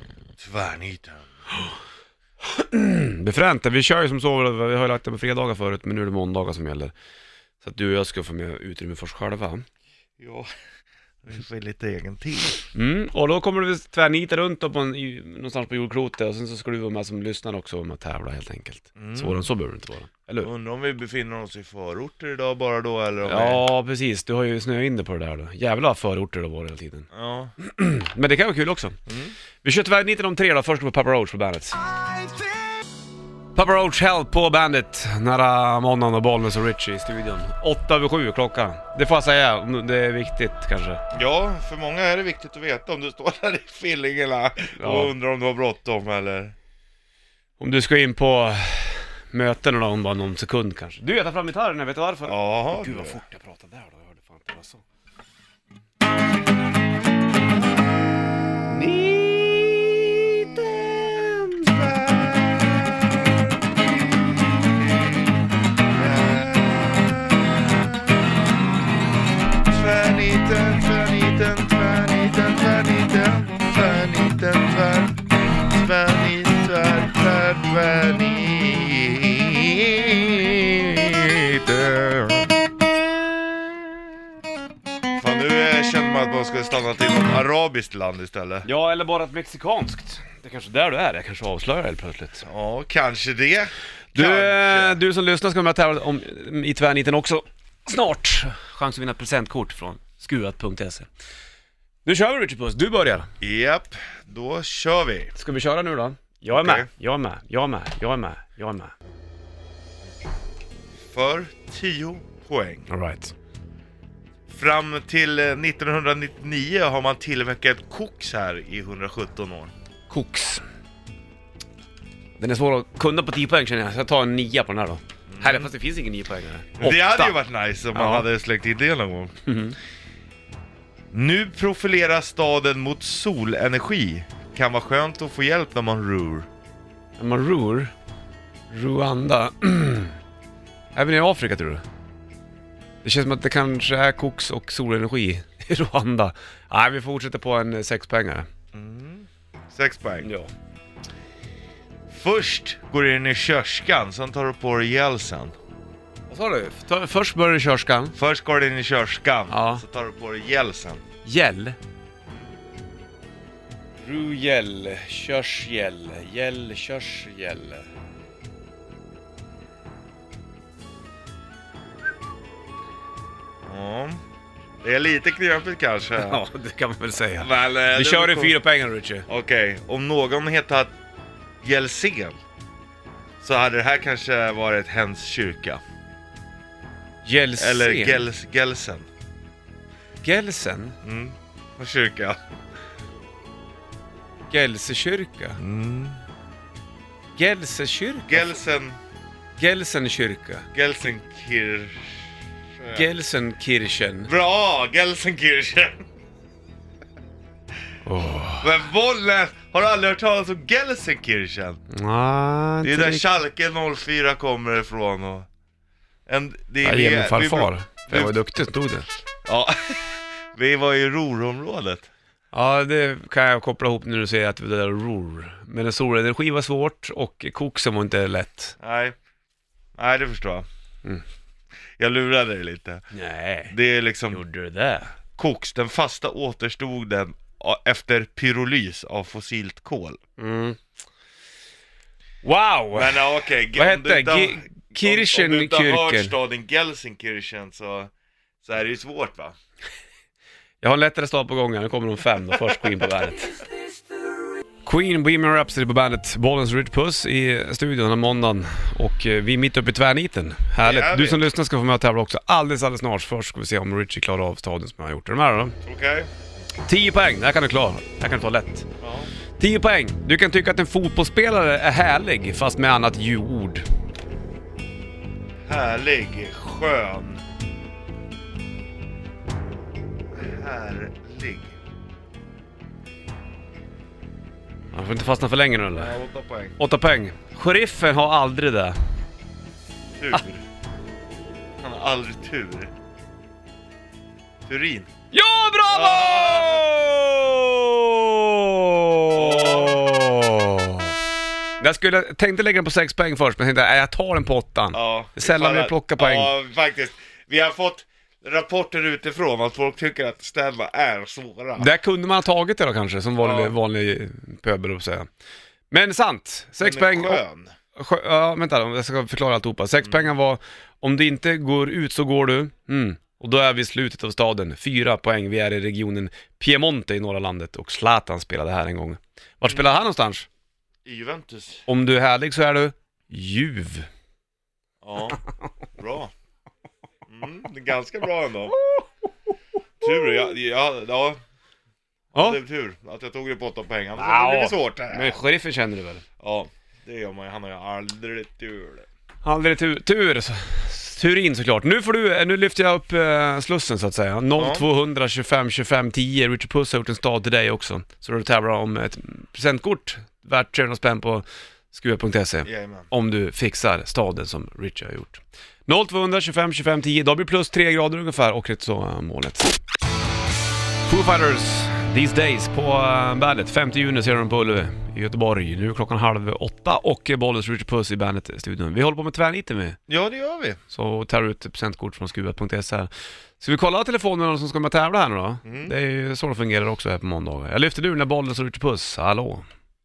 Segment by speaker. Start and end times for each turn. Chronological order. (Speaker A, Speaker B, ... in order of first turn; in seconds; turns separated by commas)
Speaker A: 0.4-1.3, Speaker B: 2.5-6.9, Speaker B: 7.6-9.7, Speaker A: 10.2-10.5, Speaker A: 11.2-12.7, Speaker B: 12.7-20.5, Speaker A: 19.0-19.4, Speaker A: 20.4-23.6, Speaker B: 23.2-27.1, Speaker A: 27.1-27.5, Speaker B: 27.6-29.0, Speaker A: 29.1-29.3, Speaker B: 29.6-32.3, Speaker B: 33.5-41.0, Speaker A: 41.1-46.5, Speaker B: 44.8-45.1, Speaker B: 47.6-54.8, Speaker A: 52.3-53.2, Speaker B: 58.6-61.9, Speaker A: 61.7-65.3, Speaker A: 65.9-68.1, Speaker A: 69.7-82.5, Speaker A: 85.2-88.7, Speaker B: 88.7-92.5, Speaker A: 92.5-95.0, Speaker B: 94.1-101.1, Speaker B: 102.0-103.3, Speaker A: 103.4-105.3, Speaker B: 105.3-108.9, Speaker A: 106.5-106.9, Speaker A: 111.1-112.9, Speaker B: 112.9-113.3, Speaker A: 114.5-119.7, Speaker B: 120.1-120.6, Speaker B: 122.4-127.4, Speaker A: 125.3-125.7, Speaker A: 126.8-129.4, Speaker B: 127.9-128.2, Speaker B: 129.5-129.8, Speaker A: 131.1-136.5, Speaker B: 137.2-137.9, Speaker B: 138.7-140.2, Speaker B: 140.9-141.8, Speaker B: 143.0-148.5, Speaker A: 148.7-150.3, Speaker B: 150.2-150.5, Speaker A: 152.1-155.6, Speaker B: 156.3-158.2, Speaker A: 158.2-161.0, Speaker B: 159.5-159.8, Speaker B: 161.2-161.8, Speaker B: 164.0-167.9, Speaker A: 173.7-174.2, Speaker A: 174.8-176.4, Speaker B: 176.2-179.3, Speaker A: 177.4-178.6, Speaker A: 179.3-180.9, Speaker A: 181.6-182.4, Speaker A: 183.4-185.8, Speaker B: 187.2-188.2, Speaker A: 187.6-189.1, Speaker B: 190.2-191.0, Speaker A: 191.0-192.4, Speaker B: 194.5-195.6, Speaker A: 195.6-196.2, Speaker B: 197.4-198.5, Speaker A: 198.3-199.0, Speaker B: 199.6-200.7, Speaker A: 200.7-202.2, Speaker A: 202.8-203.1, Speaker B: 202.9-204.3, Speaker A: 204.3-206.0, Speaker B: 208.1-208.7, Speaker A: 208.6-211.8, Speaker B: 211.9-213.2, Speaker A: 212.8-215.5, Speaker A: 216.3-218.4, Speaker B: 216.8-219.1, Speaker A: 219.5-222.1, Speaker B: 222.5-228.8, Speaker A: 228.8-229.2, Speaker A: 230.0-230.7, Speaker A: 232.0-233.0, Speaker B: 233.1-233.7, Speaker A: 233.7-234.4, Speaker B: 234.3-235.1, Speaker A: 235.4-240.2, Speaker B: 240.4-240.8, Speaker B: 242.4-246.3, Speaker A: 242.9-248.1, Speaker A: 248.6-249.5, Speaker B: 250.8-253.6, Speaker B: 254.8-265.8, Speaker A: 260.8-261.5, Speaker A: 265.9-266.3, Speaker B: 266.9-268.9, Speaker A: 269.0-269.3, Speaker B: 269.6-273.9, Speaker A: 275.7-277.4, Speaker A: 280.3-281.8, Speaker B: 284.9-286.1, Speaker A: 285.9-286.8, Speaker B: 286.8-289.0, Speaker A: 290.2-290.6, Speaker A: 291.8-292.9, Speaker A: 294.7-295.1, Speaker B: 295.3-301.1, Speaker A: 295.9-296.9, Speaker A: 299.3-300.0, Speaker B: 301.8-306.5, Speaker A: 304.9-311.9, Speaker B: 311.8-315.3, Speaker A: 313.4-313.8, Speaker B: 315.9-317.4, Speaker A: 316.8-317.7, Speaker B: 317.9-330.5, Speaker A: 320.0-320.3, Speaker A: 331.1-331.9, Speaker B: 331.9-334.1, Speaker A: 335.0-335.4, Speaker A: 336.0-336.3, Speaker A: 337.3-338.8, Speaker A: 340.0-341.4, Speaker A: 342.3-345.4, Speaker B: 344.2-346.2, Speaker A: 346.4-349.1, Speaker B: 349.4-369.8, Speaker A: 354.6-354.9, Speaker A: 362.6-363.1, Speaker B: 371.1-380.0, Speaker A: 380.1-380.8, Speaker B: 380.9-389.6, Speaker A: 385.6-385.9